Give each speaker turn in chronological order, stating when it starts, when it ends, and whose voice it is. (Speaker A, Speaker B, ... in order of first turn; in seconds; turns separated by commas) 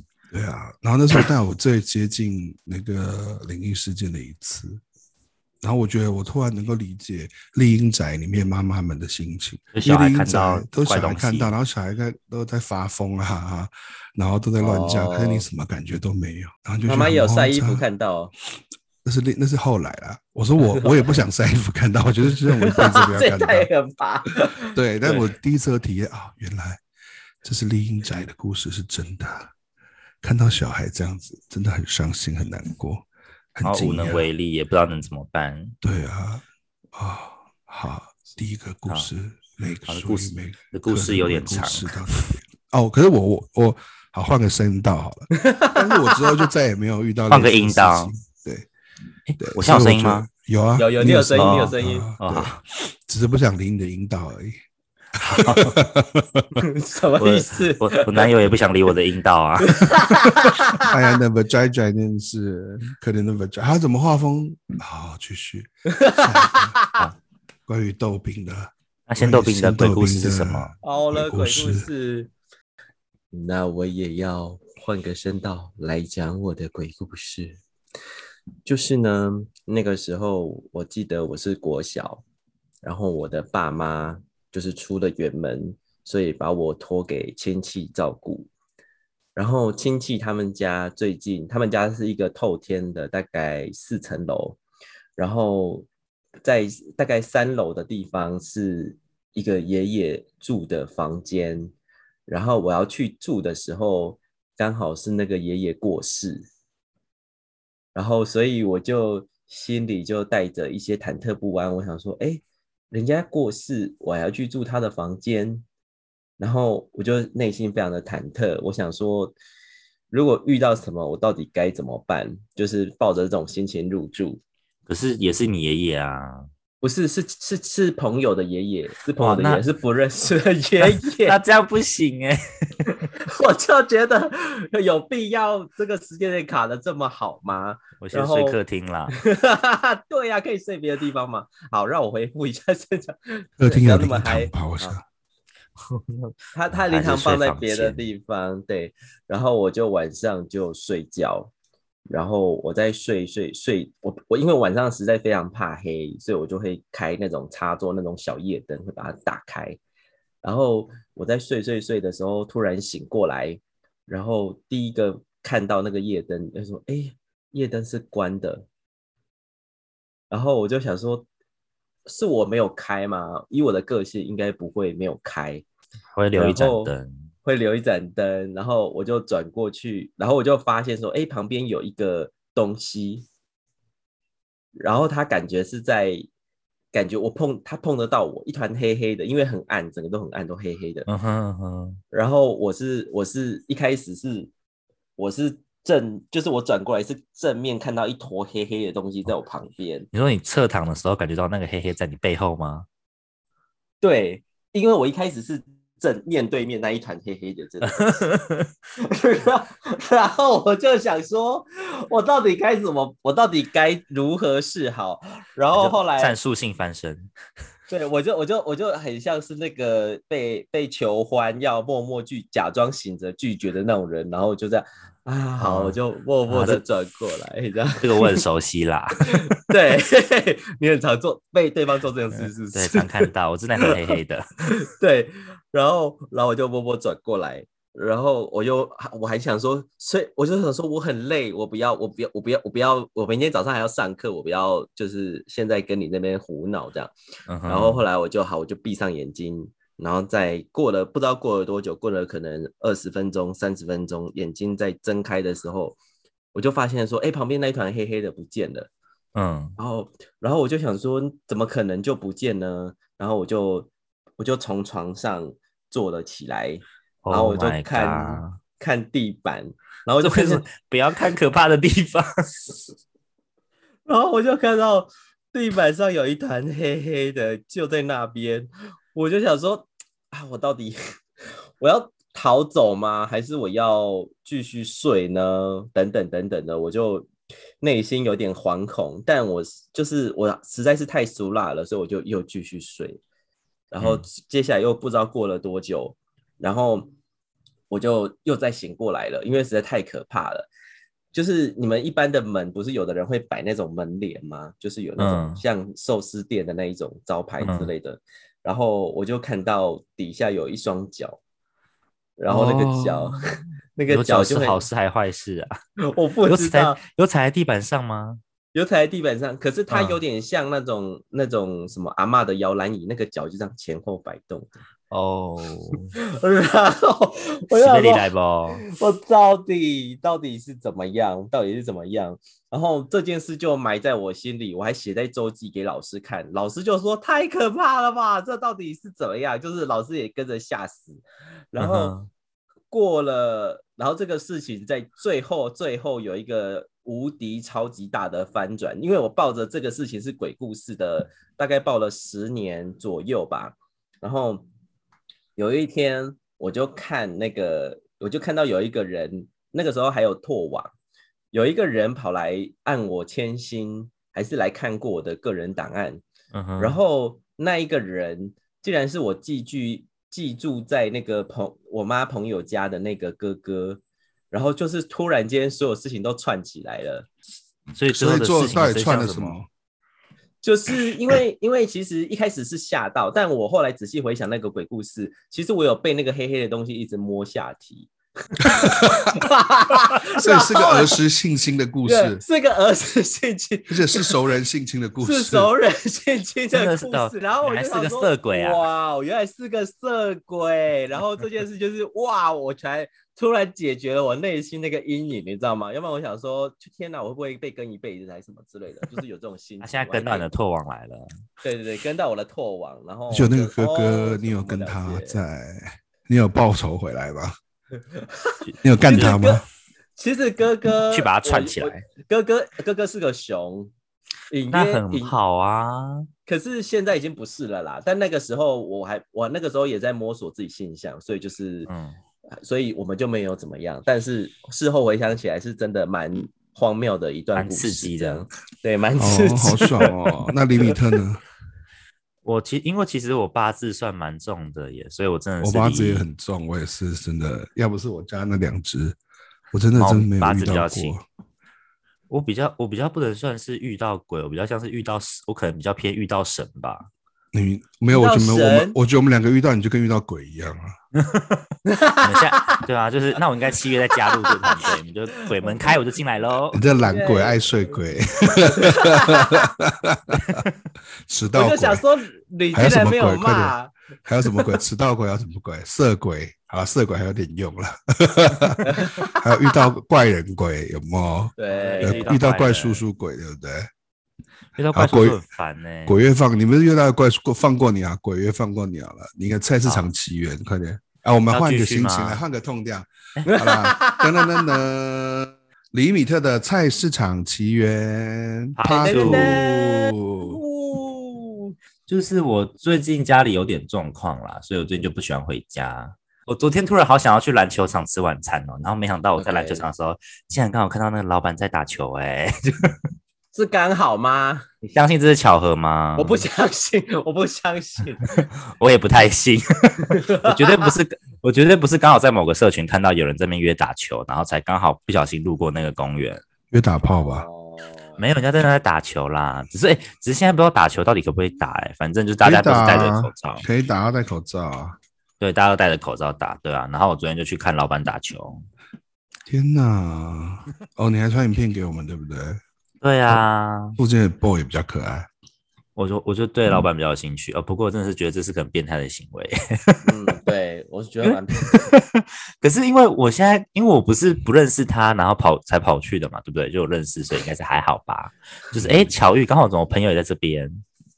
Speaker A: 0.3-4.8, Speaker A: 5.6-17.8, Speaker B: 9.7-11.5, Speaker C: 14.6-15.5, Speaker C: 16.9-18.3, Speaker A: 19.0-23.7, Speaker C: 20.7-21.1, Speaker C: 22.5-25.3, Speaker A: 24.7-26.8, Speaker A: 27.4-29.5, Speaker A: 30.2-34.3, Speaker B: 33.6-35.7, Speaker A: 35.8-48.7, Speaker B: 39.9-42.2, Speaker C: 45.3-46.5, Speaker B: 47.3-48.1, Speaker B: 49.2-50.3, Speaker A: 49.4-54.6, Speaker C: 50.8-52.1, Speaker B: 51.4-52.6, Speaker A: 55.2-56.5, Speaker B: 55.2-55.8, Speaker C: 56.6-58.3, Speaker B: 57.2-59.8, Speaker C: 59.6-60.9, Speaker A: 60.8-66.8, Speaker C: 65.9-67.0, Speaker A: 67.7-71.9, Speaker B: 69.1-70.7, Speaker C: 70.8-72.3, Speaker C: 73.3-77.6, Speaker C: 78.6-82.2, Speaker C: 82.8-88.5, Speaker C: 89.3-94.6, Speaker C: 95.2-95.9, Speaker C: 96.4-101.7, Speaker C: 102.3-106.5, Speaker C: 107.9-115.6, Speaker C: 116.4-119.3, Speaker C: 120.1-124.4, Speaker B: 124.9-126.5, Speaker C: 126.8-131.4, Speaker B: 129.2-129.6, Speaker B: 130.8-132.4, Speaker C: 133.1-145.0, Speaker B: 138.0-139.1, Speaker A: 143.6-145.0, Speaker B: 145.9-148.1, Speaker C: 146.5-151.5, Speaker C: 152.1-159.8, Speaker C: 160.4-168.6, Speaker C: 170.3-171.3, Speaker C: 172.1-175.6, Speaker B: 176.1-177.3, Speaker C: 176.3-183.3, Speaker C: 184.7-186.3, Speaker C: 186.9-191.1, Speaker B: 191.1-192.0, Speaker C: 192.1-194.5, Speaker C: 195.2-200.1, Speaker B: 200.1-202.8, Speaker C: 204.0-208.3, Speaker B: 208.0-208.7, Speaker C: 209.0-216.3, Speaker B: 215.7-217.3, Speaker C: 217.9-228.4, Speaker B: 225.6-226.8, Speaker B: 228.0-229.4, Speaker C: 229.2-234.2, Speaker B: 232.4-234.4, Speaker C: 234.7-247.1, Speaker B: 247.5-248.0, Speaker C: 247.7-256.0, Speaker C: 256.5-258.9, Speaker B: 259.4-259.8, Speaker C: 259.8-270.6, Speaker B: 267.2-268.6, Speaker B: 270.2-272.8, Speaker C: 274.1-280.9, Speaker C: 281.8-287.3, Speaker C: 287.8-293.2, Speaker C: 293.9-297.1, Speaker B: 294.0-294.3, Speaker C: 297.9-300.7, Speaker C: 301.3-311.4, Speaker B: 305.2-305.6, Speaker B: 307.6-307.9, Speaker C: 312.4-314.8, Speaker B: 312.5-313.4, Speaker B: 314.1-315.7, Speaker C: 316.0-317.0, Speaker B: 316.4-318.4, Speaker C: 318.7-324.8, Speaker B: 319.9-320.2, Speaker B: 325.1-326.1, Speaker C: 326.2-342.1, Speaker B: 327.7-328.8, Speaker B: 341.8-342.3, Speaker C: 342.9-354.6, Speaker C: 355.6-360.9, Speaker C: 361.5-366.2, Speaker B: 366.5-367.0, Speaker C: 366.8-374.0, Speaker C: 374.5-377.3, Speaker B: 377.9-379.6, Speaker A: 378.1-379.7, Speaker C: 380.6-391.2, Speaker A: 388.6-389.3, Speaker A: 390.3-392.4, Speaker C: 392.0-394.4, Speaker A: 393.9-395.7, Speaker C: 395.2-410.5, Speaker B: 396.7-398.9, Speaker B: 409.8-411.3, Speaker C: 411.6-415.4, Speaker A: 413.3-417.5, Speaker C: 418.1-419.6, Speaker B: 418.6-419.4, Speaker A: 418.8-419.6, Speaker C: 420.2-423.9, Speaker B: 421.1-422.0, Speaker C: 424.5-425.4, Speaker B: 424.7-426.2, Speaker C: 426.4-431.9, Speaker B: 431.9-432.2, Speaker C: 432.6-440.2, Speaker B: 437.6-438.4, Speaker A: 439.2-441.4, Speaker B: 442.4-446.3, Speaker A: 445.6-449.2, Speaker A: 449.7-451.2, Speaker B: 449.9-451.1, Speaker B: 452.3-457.1, Speaker A: 457.5-460.9, Speaker C: 458.1-459.0, Speaker B: 461.1-461.6, Speaker C: 461.9-462.9, Speaker B: 462.2-466.8, Speaker C: 464.1-464.9, Speaker A: 466.7-470.6, Speaker C: 467.0-467.7, Speaker C: 468.6-469.7, Speaker A: 471.2-472.0, Speaker C: 471.5-473.9, Speaker A: 472.7-483.9, Speaker C: 478.9-479.9, Speaker C: 481.6-482.3, Speaker B: 481.7-483.1, Speaker B: 484.8-486.2, Speaker A: 484.9-485.4, Speaker A: 486.1-500.6, Speaker B: 491.5-492.4, Speaker C: 493.5-494.8, Speaker B: 498.8-499.7, Speaker C: 499.0-501.7, Speaker B: 502.1-513.0, Speaker C: 509.4-509.9, Speaker C: 513.5-514.6, Speaker B: 514.8-516.4, Speaker C: 516.1-518.4, Speaker B: 518.4-526.4, Speaker C: 520.1-520.9, Speaker A: 526.7-527.5, Speaker C: 527.2-528.3, Speaker B: 528.2-533.6, Speaker A: 532.4-535.0, Speaker B: 535.4-538.6, Speaker A: 539.5-542.6, Speaker B: 543.0-544.0, Speaker A: 544.0-545.3, Speaker B: 546.0-550.1, Speaker C: 550.0-551.7, Speaker B: 551.2-560.8